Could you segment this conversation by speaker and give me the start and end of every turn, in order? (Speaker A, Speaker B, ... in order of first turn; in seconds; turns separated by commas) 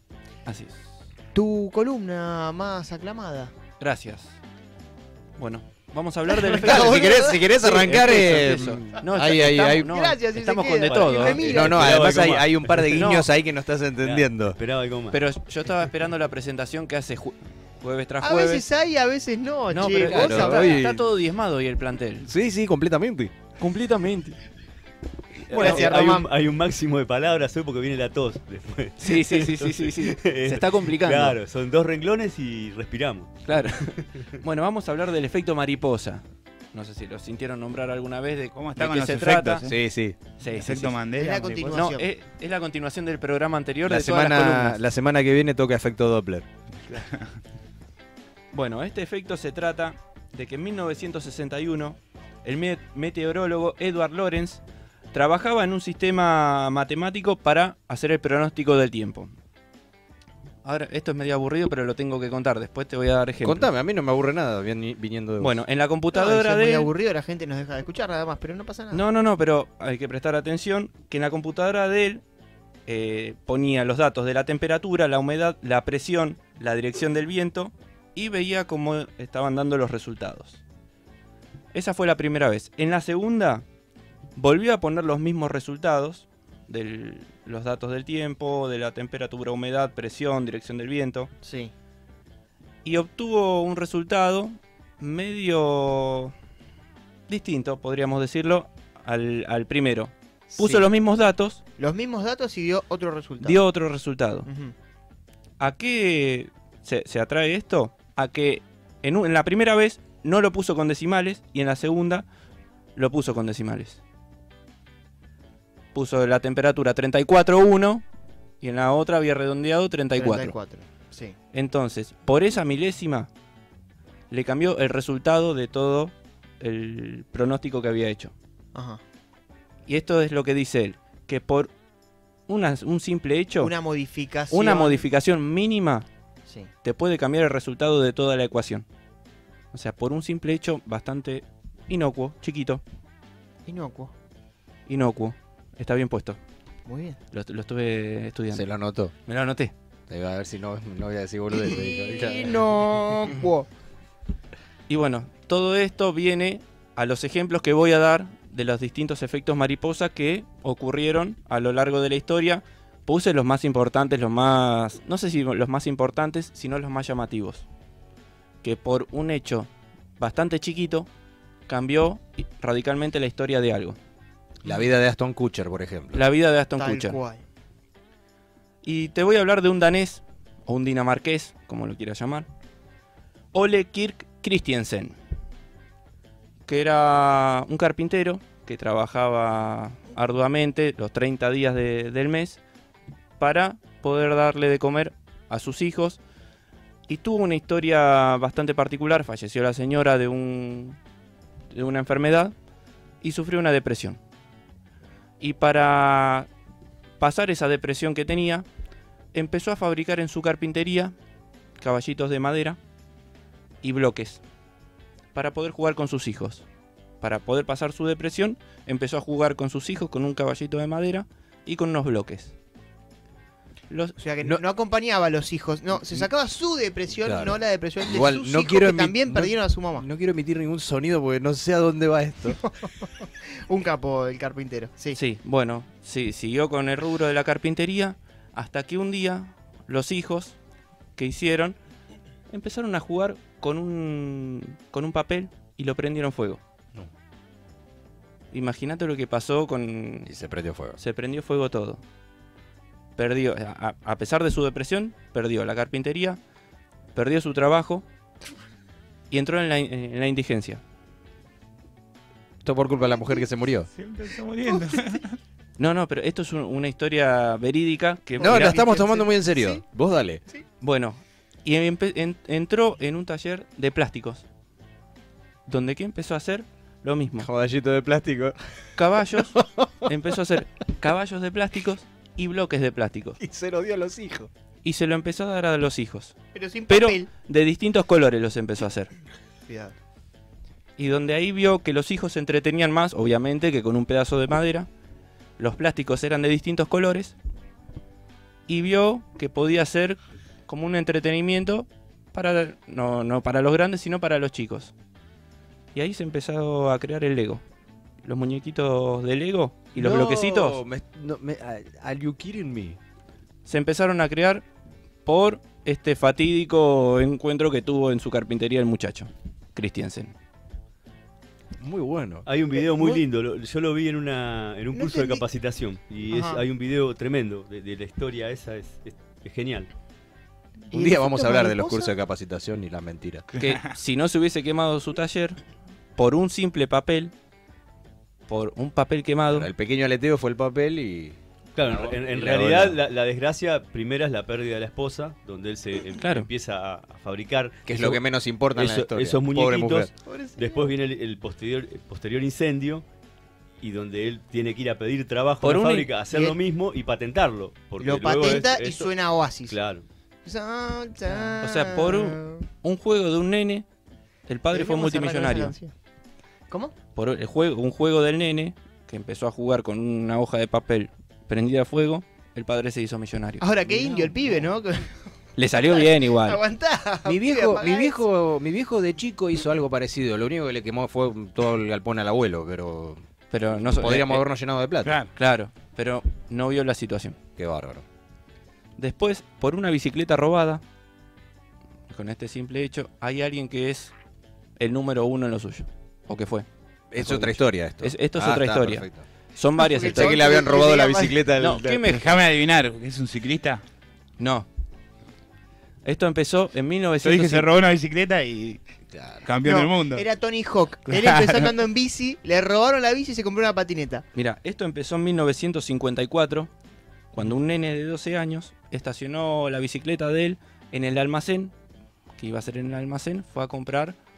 Speaker A: 0.5-0.8, Speaker B: 1.3-3.5, Speaker A: 3.8-4.3, Speaker A: 5.4-11.4, Speaker B: 6.3-7.5, Speaker C: 6.6-9.9, Speaker B: 9.4-11.9, Speaker D: 11.0-13.1, Speaker C: 11.4-14.6, Speaker A: 12.9-13.3, Speaker D: 14.0-15.2, Speaker A: 15.1-18.6, Speaker B: 18.2-20.8, Speaker A: 19.7-22.3, Speaker C: 20.0-21.0, Speaker C: 22.2-23.3, Speaker A: 23.6-24.4, Speaker A: 25.4-25.9, Speaker B: 25.5-26.3, Speaker D: 25.5-33.4, Speaker A: 29.0-31.4, Speaker A: 33.4-39.7, Speaker E: 38.5-39.7, Speaker C: 39.7-40.2, Speaker A: 40.4-41.0, Speaker E: 40.4-41.9, Speaker B: 41.1-42.1, Speaker A: 41.7-44.8, Speaker C: 43.9-46.5, Speaker E: 46.9-47.2, Speaker A: 48.5-54.6, Speaker A: 55.1-59.3, Speaker A: 60.6-63.7, Speaker C: 63.4-65.6, Speaker A: 65.4-66.9, Speaker B: 66.1-69.0, Speaker A: 68.9-72.2, Speaker A: 72.9-80.6, Speaker A: 81.7-83.6, Speaker A: 84.3-91.3, Speaker B: 91.4-91.7, Speaker A: 92.8-96.3, Speaker A: 97.3-101.6, Speaker B: 100.5-100.9, Speaker B: 101.8-103.6, Speaker A: 103.4-104.5, Speaker B: 104.5-104.7, Speaker A: 105.6-112.2, Speaker A: 113.0-114.0, Speaker A: 115.9-118.0, Speaker A: 118.6-120.5, Speaker B: 120.2-121.3, Speaker A: 121.5-123.3, Speaker A: 124.3-128.3, Speaker B: 128.7-129.0, Speaker A: 129.9-131.7, Speaker A: 132.5-133.7, Speaker B: 133.6-135.1, Speaker A: 134.5-136.1, Speaker A: 136.8-138.8, Speaker A: 139.7-142.8, Speaker B: 143.6-144.1, Speaker A: 144.9-146.4, Speaker B: 146.8-147.2, Speaker A: 147.3-148.7, Speaker C: 148.5-149.1, Speaker A: 149.2-149.7, Speaker C: 150.1-152.7, Speaker B: 151.5-153.7, Speaker A: 154.9-167.6, Speaker A: 168.6-171.1, Speaker A: 171.7-174.0, Speaker C: 174.6-176.2, Speaker A: 176.1-177.2, Speaker B: 176.8-177.4, Speaker A: 178.8-182.5, Speaker A: 183.5-185.2, Speaker A: 186.7-192.6, Speaker A: 193.4-196.2, Speaker A: 197.1-201.0, Speaker A: 201.7-202.5, Speaker A: 203.2-204.2, Speaker A: 205.4-206.5, Speaker A: 207.2-208.7, Speaker A: 209.3-211.1, Speaker A: 211.8-212.8, Speaker A: 213.8-214.4, Speaker A: 215.3-216.6, Speaker A: 217.2-222.5, Speaker A: 223.9-224.2, Speaker B: 224.2-230.1, Speaker C: 225.9-226.3, Speaker C: 227.2-232.6, Speaker B: 232.6-235.2, Speaker A: 235.1-240.6, Speaker A: 241.2-241.8, Speaker A: 242.5-246.6, Speaker A: 248.5-250.3, Speaker C: 250.2-251.0, Speaker A: 251.0-252.0, Speaker A: 253.2-256.4, Speaker A: 257.1-258.1, Speaker A: 259.3-260.8, Speaker C: 262.6-263.9, Speaker E: 264.0-265.4, Speaker A: 265.8-269.0, Speaker B: 268.4-269.8, Speaker C: 268.4-270.4, Speaker A: 270.8-274.4, Speaker A: 275.7-277.5, Speaker C: 277.4-278.7, Speaker A: 278.9-283.4, Speaker C: 279.4-280.1, Speaker C: 283.4-284.5, Speaker A: 284.8-286.4, Speaker B: 286.5-287.3, Speaker A: 286.9-289.1, Speaker B: 289.7-289.9, Speaker A: 291.0-294.9, Speaker A: 295.6-297.3, Speaker A: 298.7-304.9, Speaker A: 305.9-307.6, Speaker A: 308.2-310.8, Speaker C: 309.9-313.0, Speaker A: 313.6-314.6, Speaker A: 315.2-320.3, Speaker C: 321.8-322.5, Speaker D: 322.4-329.9, Speaker B: 322.8-323.2, Speaker B: 324.9-325.4, Speaker B: 326.3-326.6, Speaker B: 330.9-332.1, Speaker C: 330.9-333.4, Speaker E: 333.5-333.8, Speaker A: 333.5-335.6, Speaker A: 336.2-337.3, Speaker A: 338.5-339.7, Speaker C: 339.5-343.0, Speaker D: 341.7-348.2, Speaker A: 346.2-346.5, Speaker C: 347.8-350.1, Speaker D: 348.7-353.1, Speaker B: 350.2-350.9, Speaker D: 353.8-359.1, Speaker A: 355.6-356.1, Speaker B: 356.3-356.6, Speaker B: 358.0-359.8, Speaker D: 359.7-360.1, Speaker B: 360.4-362.7, Speaker A: 361.6-363.9, Speaker A: 364.5-365.7, Speaker B: 364.7-365.9, Speaker B: 366.7-366.9, Speaker A: 367.1-373.7, Speaker B: 373.6-378.2, Speaker C: 373.9-374.4, Speaker A: 375.6-376.6, Speaker C: 377.2-383.2, Speaker A: 383.5-384.4, Speaker C: 383.8-385.1, Speaker E: 385.0-385.3, Speaker A: 385.4-387.4, Speaker C: 387.6-388.0, Speaker A: 389.0-390.8, Speaker A: 392.1-394.1, Speaker A: 394.8-396.6, Speaker C: 397.1-399.2, Speaker A: 397.2-400.5, Speaker B: 399.8-401.5, Speaker C: 400.1-402.0, Speaker A: 401.6-402.4, Speaker E: 402.0-403.8, Speaker A: 404.4-404.7, Speaker A: 406.0-407.7, Speaker E: 407.2-408.8, Speaker C: 409.1-409.4, Speaker E: 409.4-410.2, Speaker B: 409.6-414.2, Speaker E: 411.1-411.7, Speaker A: 414.3-416.7, Speaker A: 417.3-421.7, Speaker A: 422.4-424.1